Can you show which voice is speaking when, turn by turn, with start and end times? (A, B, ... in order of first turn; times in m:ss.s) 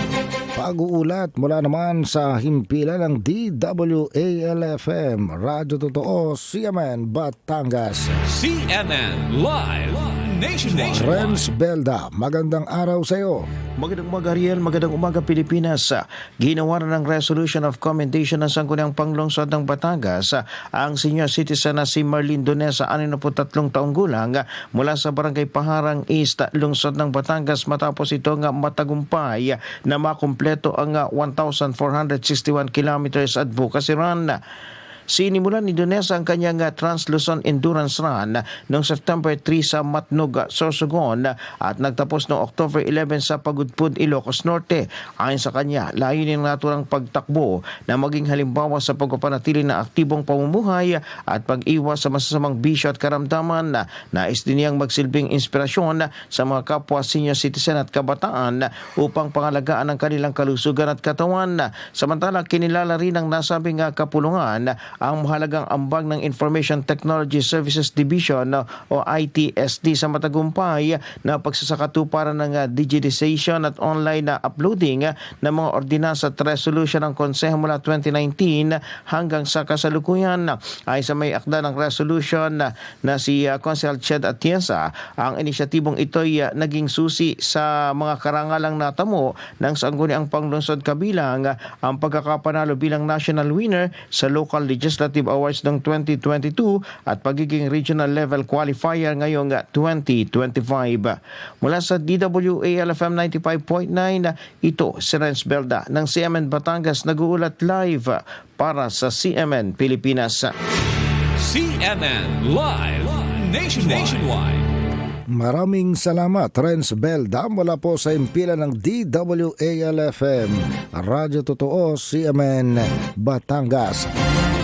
0:00.6-0:08.2 A
0:08.2-0:11.5 B
0:10.8-0:13.5 A
0:13.8-0:34.4 C
0:35.1-1:50.5 C
1:51.4-1:54.7 B
1:55.3-2:04.1 A